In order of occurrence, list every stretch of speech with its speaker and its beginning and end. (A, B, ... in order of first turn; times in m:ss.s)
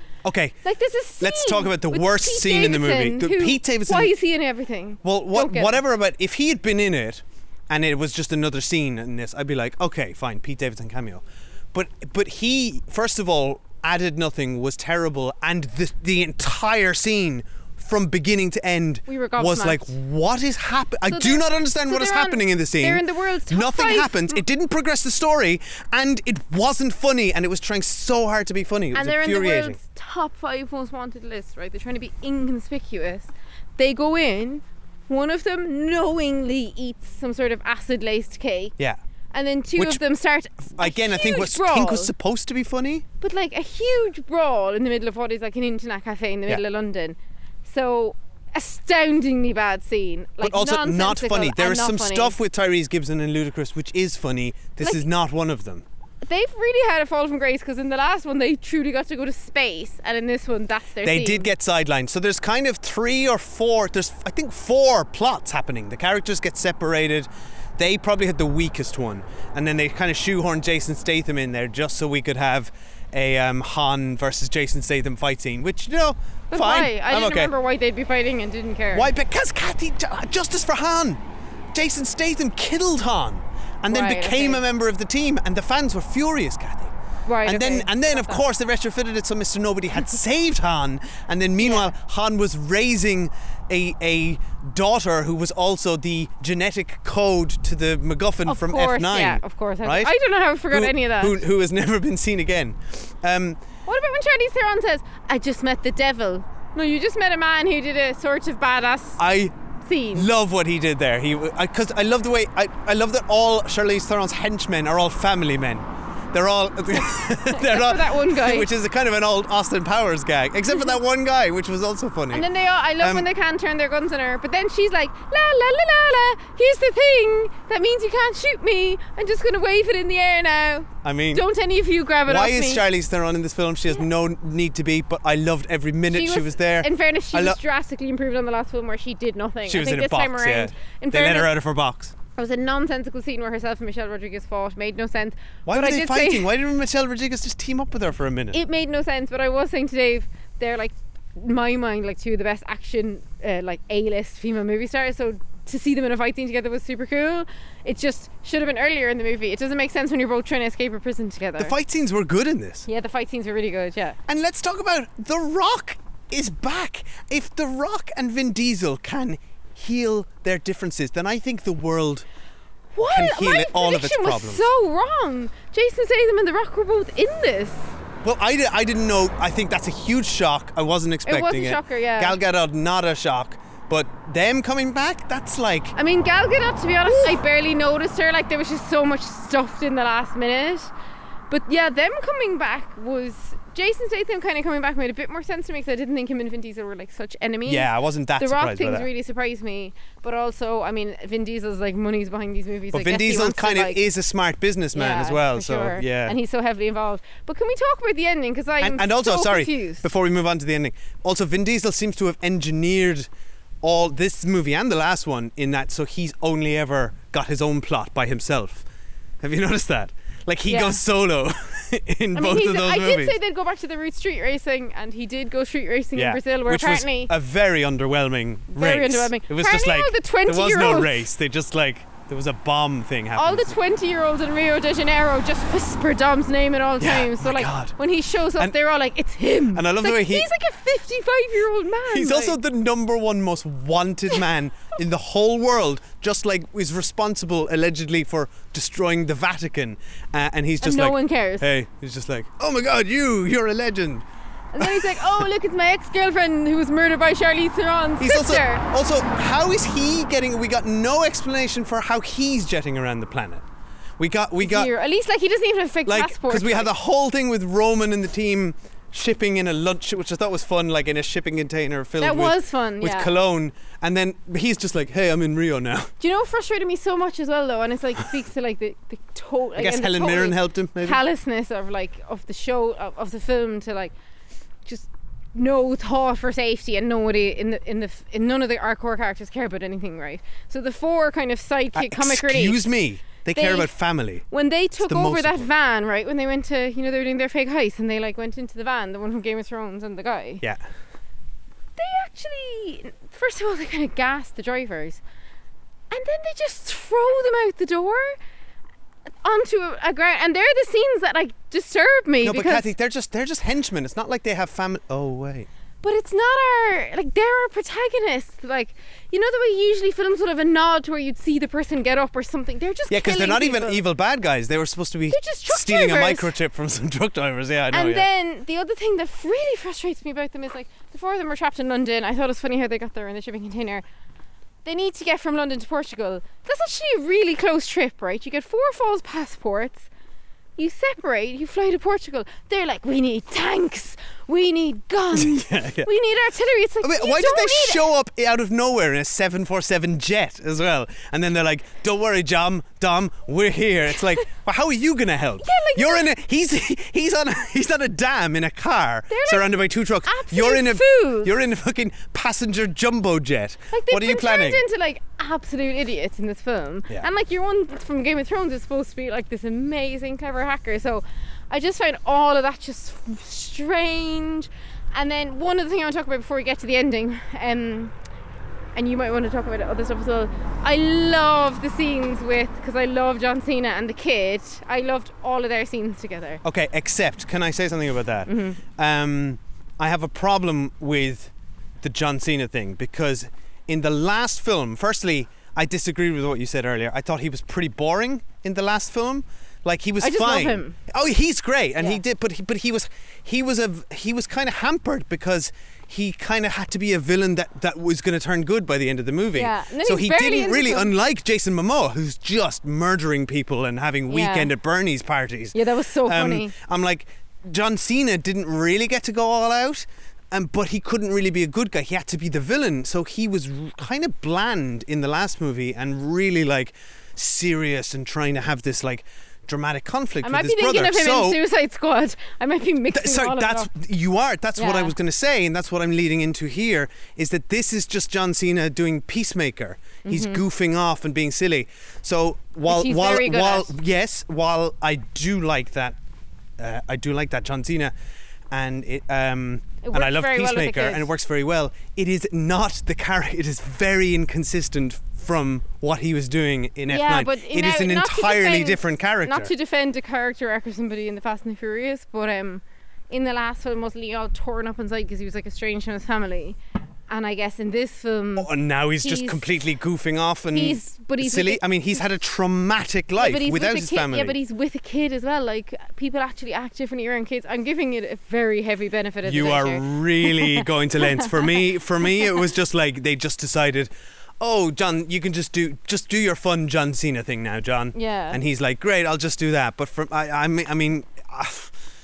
0:00.2-0:00.6 A
0:00.6-0:05.8 B
0:01.2-0:04.1 A
0:05.0-0:29.8 A
0:19.1-0:19.9 B
0:21.1-0:24.4 B
0:28.9-0:38.7 B
0:39.3-0:42.1 B
0:39.8-0:40.0 A
0:40.6-0:43.0 A
0:43.2-0:52.4 B
0:50.4-0:55.8 A
0:56.2-1:01.5 B
1:01.0-1:17.5 A
1:16.5-1:19.1 B
1:18.9-1:21.2 A
1:21.7-1:26.9 A
1:23.9-1:24.6 B
1:27.2-1:28.4 B
1:27.4-1:40.1 A
1:31.6-1:31.9 B
1:38.4-1:41.4 B
1:40.7-1:43.6 A
1:43.8-1:49.2 B
1:49.2-1:49.5 A
1:49.8-1:50.3 B
1:50.1-2:02.4 A
1:57.5-1:58.7 B
2:02.3-2:12.8 B
2:03.0-2:03.2 A
2:11.0-2:11.4 A
2:12.2-2:17.6 A
2:16.1-2:21.5 B
2:19.7-2:22.1 A
2:22.4-2:26.5 B
2:25.6-2:28.6 A
2:28.5-2:41.8 B
2:41.6-2:42.9 A
2:42.9-2:44.2 B
2:44.3-2:52.2 A
2:52.9-2:57.9 B
2:53.1-2:54.6 A
2:58.2-3:06.0 A
3:01.3-3:02.4 B
3:06.0-3:10.9 B
3:11.5-3:24.0 B
3:17.6-3:19.1 A
3:22.9-3:26.4 A
3:24.9-3:30.0 B
3:28.8-3:33.3 A
3:33.8-3:38.8 A
3:39.4-3:43.4 A
3:40.7-3:41.0 B
3:42.4-3:47.3 B
3:46.1-3:53.8 A
3:48.7-3:51.2 B
3:53.4-4:02.6 B
3:57.0-3:57.9 A
3:59.7-4:00.5 A
4:02.1-4:14.2 A
4:10.8-4:11.6 B
4:14.7-4:18.8 B
4:14.8-4:15.4 A
4:18.2-4:23.6 A
4:24.2-4:24.9 A
4:24.6-4:26.9 B
4:26.0-4:36.1 A
4:32.2-4:33.3 B
4:36.2-4:44.1 B
4:39.8-4:41.2 A
4:44.8-4:52.8 B
4:51.9-4:54.4 A
4:53.5-4:53.9 B
4:54.5-5:00.6 B
4:55.0-4:55.7 A
5:02.0-5:05.2 B
5:06.1-5:08.4 B
5:09.4-5:12.9 B
5:12.4-5:15.7 A
5:16.0-5:24.0 B
5:23.1-5:28.2 A
5:25.3-5:26.5 B
5:27.9-5:34.0 B
5:34.8-5:40.1 B
5:40.8-5:48.1 B
5:45.3-5:46.1 A
5:47.0-6:04.8 A
5:55.6-5:56.3 B
5:59.3-6:01.5 B
6:03.9-6:18.1 B
6:18.9-6:26.6 B
6:26.6-7:11.6 A
6:28.5-6:28.8 B
6:40.2-6:41.0 B
6:49.5-6:51.1 B
6:54.3-6:54.7 B
6:55.7-6:56.7 B
7:10.4-7:13.9 B
7:13.1-7:26.2 A
7:14.8-7:15.1 B
7:20.2-7:20.6 B
7:22.9-7:23.9 B
7:26.8-7:28.1 A
7:28.7-7:39.7 A
7:30.0-7:31.3 B
7:37.1-7:46.8 B
7:47.3-7:48.7 B
7:48.6-7:54.6 A
7:49.2-7:49.7 B
7:50.7-7:51.8 B
7:53.4-8:01.8 B
7:59.4-8:12.0 A
8:08.1-8:08.6 B